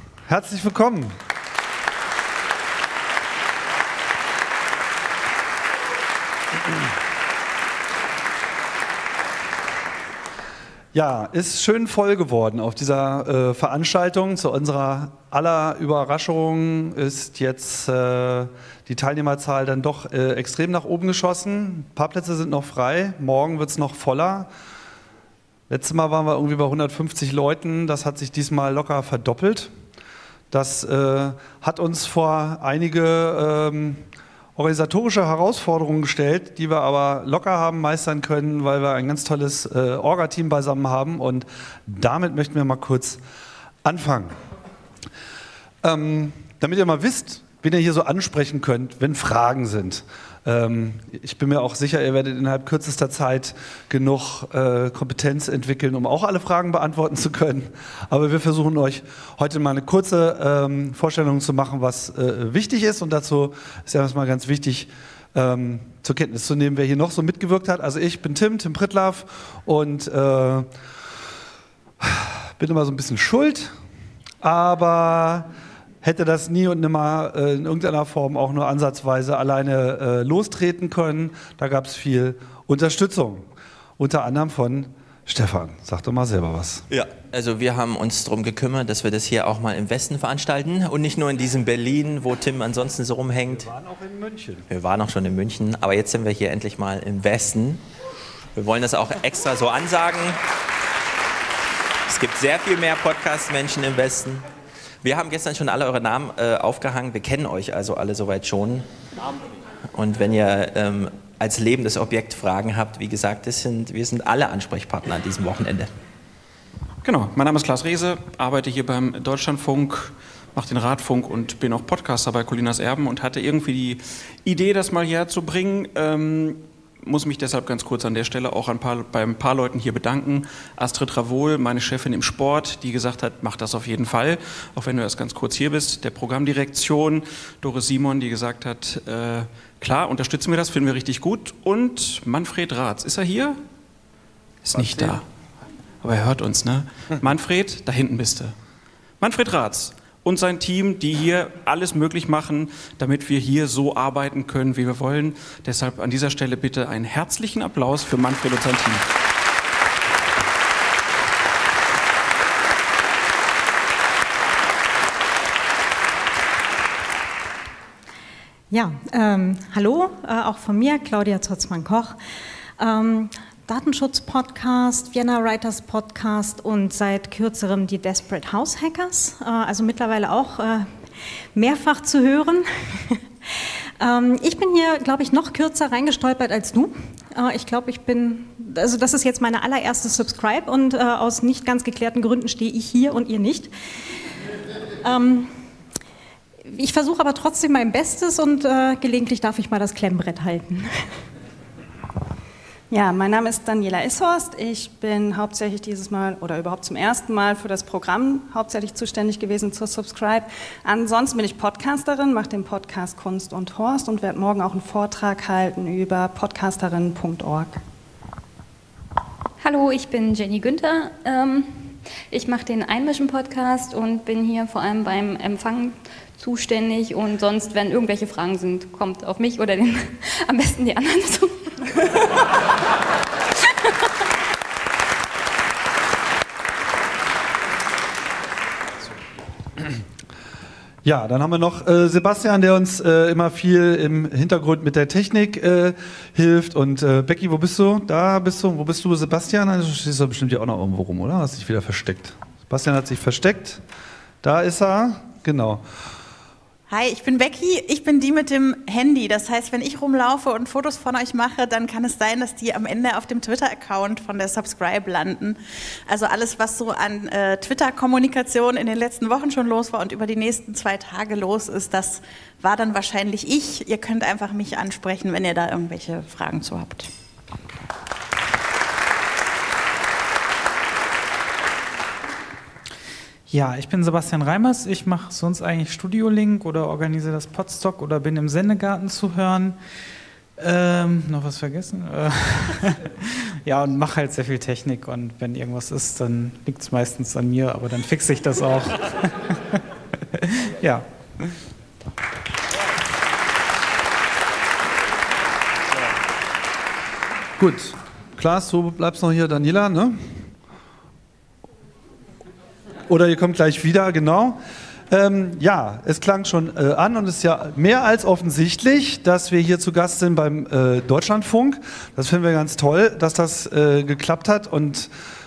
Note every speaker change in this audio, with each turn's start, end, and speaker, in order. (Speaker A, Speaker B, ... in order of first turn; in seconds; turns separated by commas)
Speaker A: 0.3-1.2, Speaker A: 10.9-24.5, Speaker A: 25.7-29.7, Speaker A: 30.5-34.0, Speaker A: 34.6-43.2, Speaker A: 43.8-44.4, Speaker A: 45.8-70.7, Speaker A: 72.0-73.7, Speaker A: 74.4-75.5, Speaker A: 76.0-83.5, Speaker A: 84.0-86.8, Speaker B: 86.9-93.7, Speaker A: 93.5-94.7, Speaker B: 94.7-97.8, Speaker B: 98.5-100.4, Speaker B: 102.1-104.4, Speaker B: 105.0-108.8, Speaker B: 110.0-115.9, Speaker C: 117.0-143.6, Speaker C: 144.6-145.2, Speaker C: 146.0-148.5, Speaker C: 149.2-159.1, Speaker D: 168.7-172.2, Speaker D: 172.8-180.9, Speaker D: 181.5-183.2, Speaker D: 184.0-193.7, Speaker D: 195.0-195.5, Speaker D: 196.7-201.0, Speaker E: 202.9-217.8, Speaker F: 219.6-232.1, Speaker A: 241.0-253.8, Speaker A: 254.4-255.8, Speaker G: 256.9-277.1, Speaker H: 283.5-289.8, Speaker H: 290.6-292.9, Speaker H: 293.6-298.9, Speaker A: 307.6-310.2, Speaker A: 313.1-325.1